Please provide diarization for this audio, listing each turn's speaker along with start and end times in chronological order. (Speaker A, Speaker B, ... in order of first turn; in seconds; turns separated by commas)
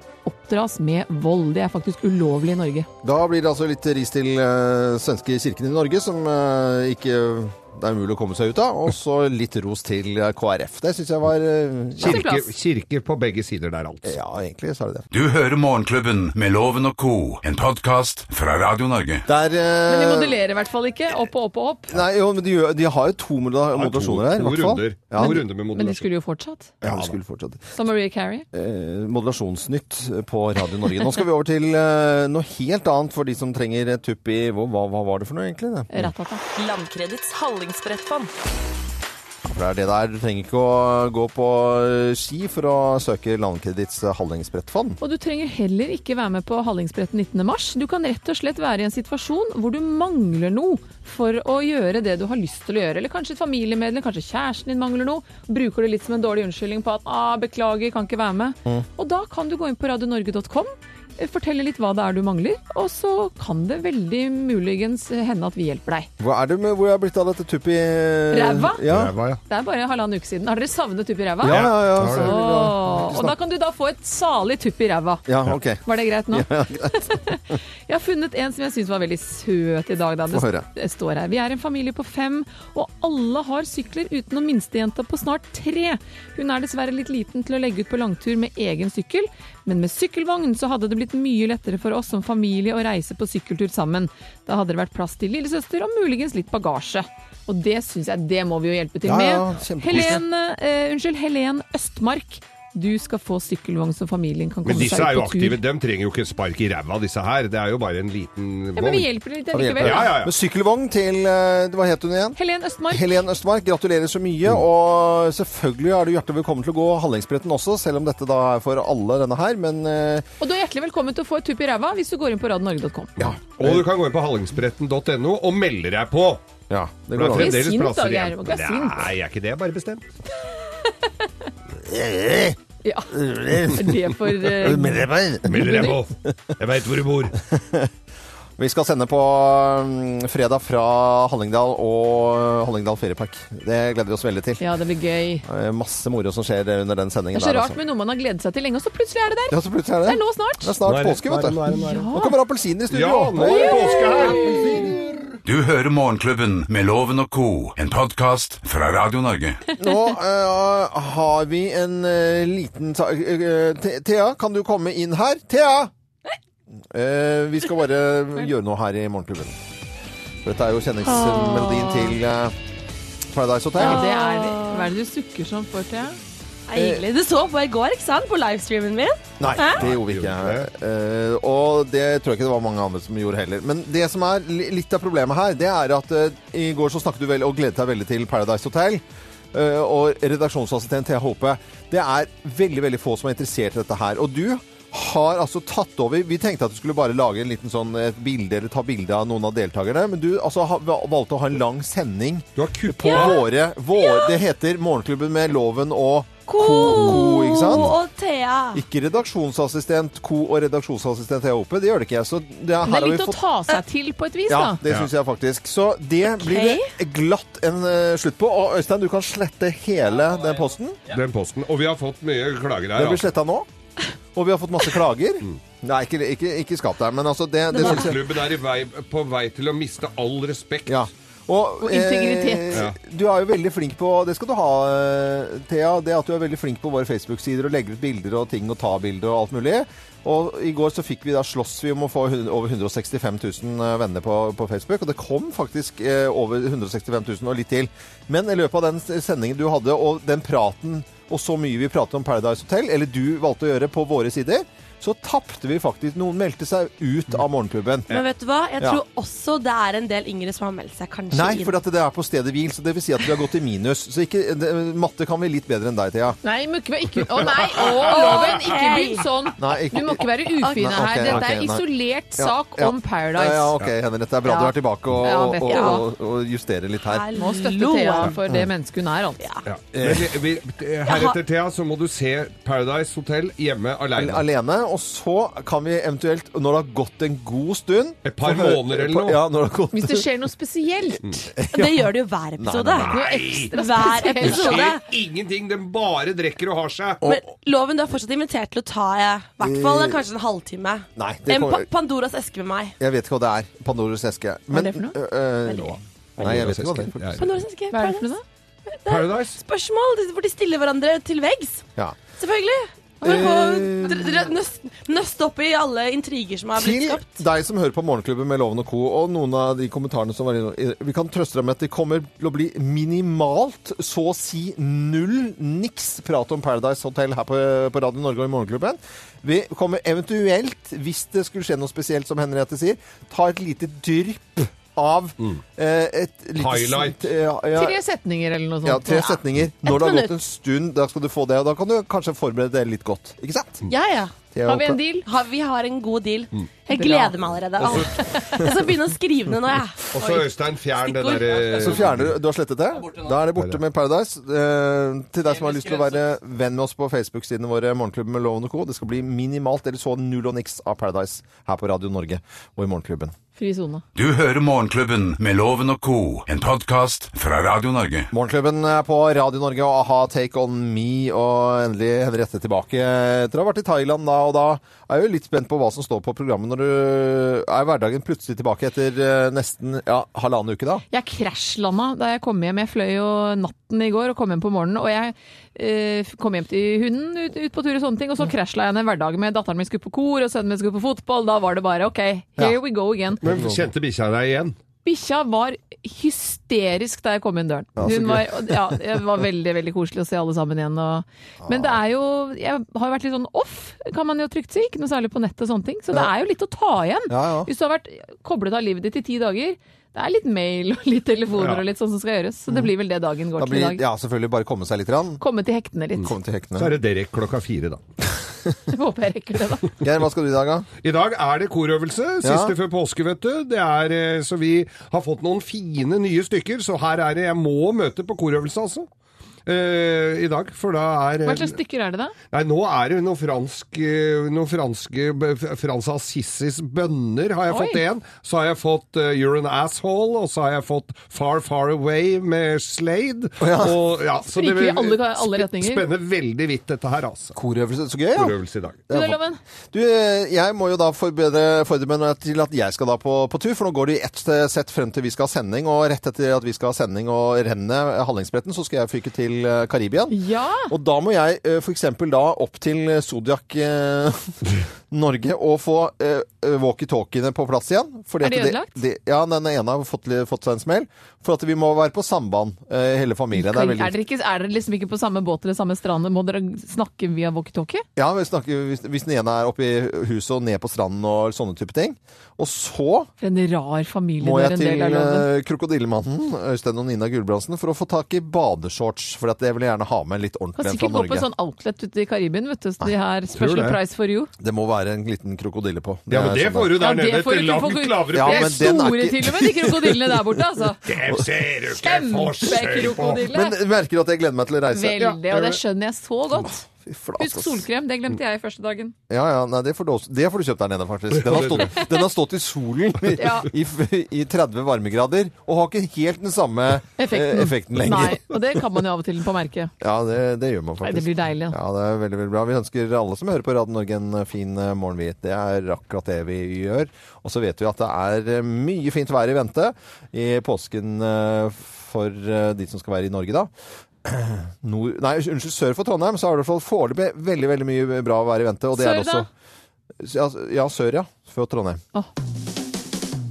Speaker A: 0.2-2.9, Speaker B: 3.0-12.2, Speaker A: 12.0-12.5, Speaker C: 12.0-14.1, Speaker B: 14.1-15.1, Speaker D: 15.1-19.3, Speaker B: 19.3-20.4, Speaker A: 19.9-22.0, Speaker B: 21.9-25.4, Speaker C: 23.7-26.1, Speaker A: 25.2-26.7, Speaker C: 26.8-27.2, Speaker B: 26.8-27.7, Speaker A: 27.7-28.5, Speaker B: 28.5-36.1, Speaker A: 35.9-36.4, Speaker E: 36.5-38.3, Speaker B: 39.4-45.0, Speaker A: 45.0-66.1, Speaker B: 66.2-69.1, Speaker A: 68.3-68.8, Speaker C: 68.9-69.4, Speaker A: 69.5-75.3, Speaker B: 71.4-73.4, Speaker C: 71.5-72.3, Speaker B: 75.3-77.2, Speaker A: 75.8-105.6, Speaker B: 80.3-80.7, Speaker B: 99.0-100.2, Speaker C: 104.7-109.1, Speaker A: 108.8-110.2, Speaker B: 109.5-112.4, Speaker C: 109.8-110.3, Speaker A: 112.4-113.2, Speaker B: 112.9-120.3, Speaker A: 120.4-123.3, Speaker B: 123.2-123.8, Speaker C: 123.2-126.4, Speaker B: 126.7-127.8, Speaker C: 127.1-130.1, Speaker A: 127.3-129.1, Speaker A: 130.8-131.5, Speaker B: 131.8-132.6, Speaker A: 132.8-133.2, Speaker B: 133.1-136.0, Speaker A: 133.7-136.0, Speaker C: 135.5-137.4, Speaker B: 137.5-137.9, Speaker B: 138.6-144.7, Speaker A: 144.6-145.5, Speaker B: 145.4-147.8, Speaker A: 147.3-150.7, Speaker B: 149.5-155.1, Speaker C: 150.9-152.0, Speaker A: 151.7-152.4, Speaker C: 152.9-155.1, Speaker A: 153.4-154.8, Speaker D: 155.4-159.7, Speaker B: 159.8-165.9, Speaker B: 166.9-169.6, Speaker B: 170.4-172.6, Speaker E: 171.0-172.2, Speaker B: 173.3-174.1, Speaker A: 173.8-176.2, Speaker E: 173.8-174.9, Speaker E: 176.7-179.8, Speaker B: 176.8-177.0, Speaker B: 179.4-208.0, Speaker C: 179.4-180.7, Speaker C: 202.6-203.4, Speaker E: 203.1-203.4, Speaker E: 204.0-204.3, Speaker E: 206.5-208.8, Speaker B: 208.7-213.4, Speaker A: 212.8-214.8, Speaker B: 214.5-221.0, Speaker E: 216.3-216.9, Speaker C: 221.1-223.3, Speaker B: 222.9-223.7, Speaker B: 224.3-228.2, Speaker C: 227.7-231.0, Speaker B: 230.9-258.2, Speaker A: 231.8-232.8, Speaker E: 258.1-261.8, Speaker B: 261.3-266.4, Speaker A: 266.4-273.7, Speaker E: 267.8-269.3, Speaker B: 269.6-277.3, Speaker A: 274.4-276.1, Speaker E: 275.6-276.0, Speaker E: 277.1-278.4, Speaker A: 277.4-279.5, Speaker C: 279.7-284.4, Speaker B: 279.9-280.3, Speaker E: 281.1-281.4, Speaker B: 284.1-290.3, Speaker C: 288.2-289.4, Speaker A: 289.9-291.4, Speaker B: 291.6-293.2, Speaker E: 291.7-295.0, Speaker A: 293.1-294.9, Speaker C: 293.2-293.7, Speaker C: 294.4-297.2, Speaker E: 297.2-303.0, Speaker B: 299.6-300.2, Speaker B: 301.2-301.9, Speaker B: 303.0-307.3, Speaker A: 304.7-305.2, Speaker E: 305.7-306.6, Speaker C: 306.4-307.5, Speaker E: 307.4-308.3, Speaker A: 307.9-308.4, Speaker E: 308.9-311.9, Speaker C: 309.1-309.6, Speaker E: 312.4-317.4, Speaker B: 313.2-314.5, Speaker B: 316.8-338.0, Speaker C: 336.6-337.3, Speaker A: 337.7-339.4, Speaker B: 338.8-343.9, Speaker E: 339.8-340.3, Speaker E: 343.9-344.3, Speaker B: 344.5-345.0, Speaker A: 344.6-345.3, Speaker E: 345.2-350.2, Speaker A: 346.9-348.7, Speaker C: 347.8-348.1, Speaker C: 350.1-352.4, Speaker E: 351.0-351.9, Speaker B: 351.7-363.3, Speaker C: 353.6-353.8, Speaker A: 363.6-364.0, Speaker D: 364.2-368.3, Speaker B: 368.3-381.0, Speaker A: 381.1-393.4, Speaker B: 393.4-393.9, Speaker C: 393.4-394.8, Speaker A: 395.0-414.0, Speaker B: 398.0-398.4, Speaker C: 398.0-398.5, Speaker B: 401.6-402.0, Speaker B: 407.3-407.7, Speaker C: 411.6-411.8, Speaker B: 413.6-415.4, Speaker A: 415.4-416.3, Speaker B: 416.2-417.0, Speaker C: 416.8-418.0, Speaker A: 418.9-419.9, Speaker B: 420.0-420.9, Speaker C: 421.0-429.1, Speaker B: 422.4-422.8, Speaker C: 429.7-431.8, Speaker A: 431.4-432.4, Speaker C: 432.5-447.6, Speaker A: 437.7-438.0, Speaker B: 443.6-444.0, Speaker A: 444.4-446.1, Speaker B: 447.6-448.6, Speaker C: 448.4-449.0, Speaker B: 449.1-449.4, Speaker A: 449.1-449.6, Speaker B: 449.9-460.4, Speaker A: 460.3-460.9, Speaker B: 460.9-474.2, Speaker A: 468.4-469.0, Speaker A: 473.5-478.1, Speaker B: 478.2-483.3, Speaker A: 483.4-485.5, Speaker B: 484.4-491.5, Speaker A: 490.8-494.5, Speaker C: 493.6-494.0, Speaker B: 494.6-497.0, Speaker C: 496.3-498.9, Speaker A: 496.9-501.0, Speaker B: 498.3-500.5, Speaker C: 501.1-503.5, Speaker A: 502.0-503.8, Speaker B: 503.5-505.3, Speaker A: 504.9-506.8, Speaker C: 505.2-505.8, Speaker B: 506.6-507.9, Speaker A: 507.4-509.1, Speaker B: 509.3-518.5, Speaker C: 511.3-512.0, Speaker A: 513.3-513.7, Speaker A: 517.2-519.9, Speaker B: 520.0-533.7, Speaker A: 521.0-521.8, Speaker B: 534.2-539.5, Speaker A: 538.9-539.5, Speaker B: 540.2-542.0